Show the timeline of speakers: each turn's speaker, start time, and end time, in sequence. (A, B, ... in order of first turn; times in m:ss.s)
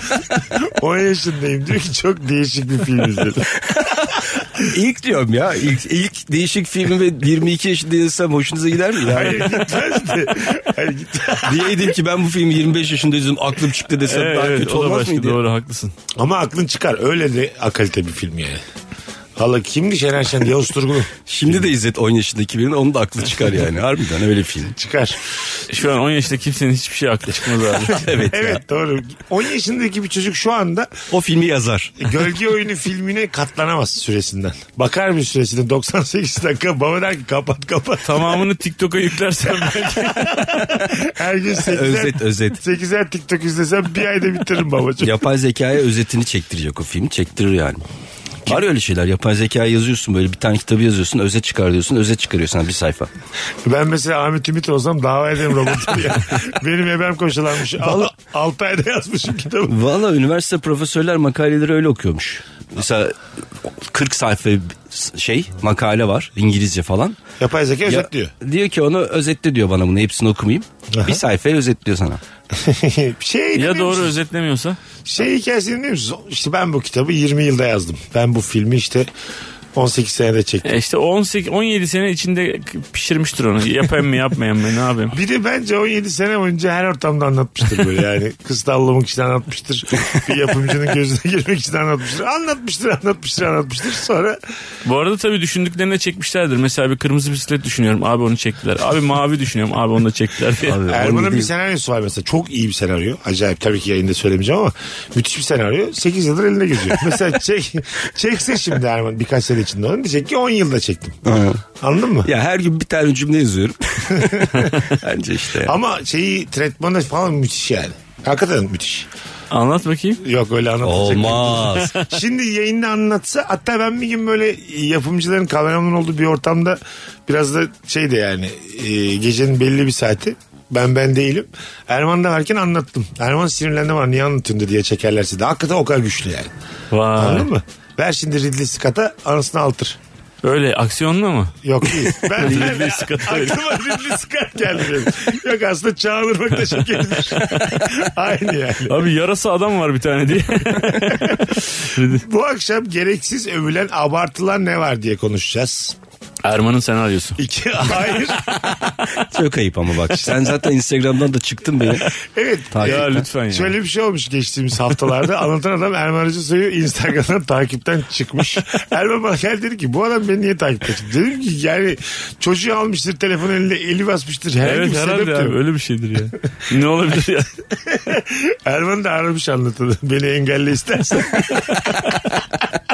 0:00.4-0:03.5 A
0:03.5-0:09.6 B
0:09.0-0:12.0 A
0:11.4-0:15.4 B
0:14.0-0:15.9 C
0:16.1-0:18.6 A
0:19.4-0:21.7 A
0:21.3-0:24.7 B
0:24.7-0:25.2 A
0:25.7-0:28.0 C
0:27.9-0:28.6 B
0:28.3-0:30.9 A
0:31.1-0:32.1 B
0:32.0-0:38.5 A
0:38.0-0:40.7 C
0:39.7-0:45.2 A
0:41.6-0:42.6 B
0:45.0-0:47.8 B
0:48.5-0:53.1 B
0:53.6-0:59.8 A
0:57.8-0:58.1 B
0:59.7-1:03.1 B
1:03.7-1:07.2 B
1:07.4-1:08.3 A
1:07.8-1:12.2 B
1:10.9-1:11.2 A
1:12.5-1:14.2 A
1:13.5-1:14.8 C
1:15.0-1:19.1 A
1:19.7-1:20.7 A
1:20.6-1:25.1 C
1:25.1-1:34.4 A
1:34.8-1:40.8 C
1:40.7-1:41.5 B
1:40.9-1:51.2 A
1:51.2-1:51.6 B
1:51.8-1:52.3 A
1:52.2-1:55.7 B
1:54.1-1:54.9 A
1:55.6-1:59.1 A
1:59.5-2:00.2 C
2:00.2-2:16.5 A
2:00.8-2:01.9 B
2:01.7-2:02.1 C
2:16.9-2:17.5 C
2:17.2-2:20.0 A
2:20.4-2:23.7 C
2:21.6-2:29.0 A
2:22.4-2:22.7 B
2:27.4-2:27.8 C
2:28.9-2:32.2 C
2:31.0-2:36.0 A
2:36.4-2:39.2 C
2:37.4-2:38.6 A
2:39.2-2:42.1 B
2:42.2-2:55.6 A
2:42.7-2:43.2 B
2:42.8-2:43.8 C
2:54.6-2:57.5 C
2:57.8-3:02.4 A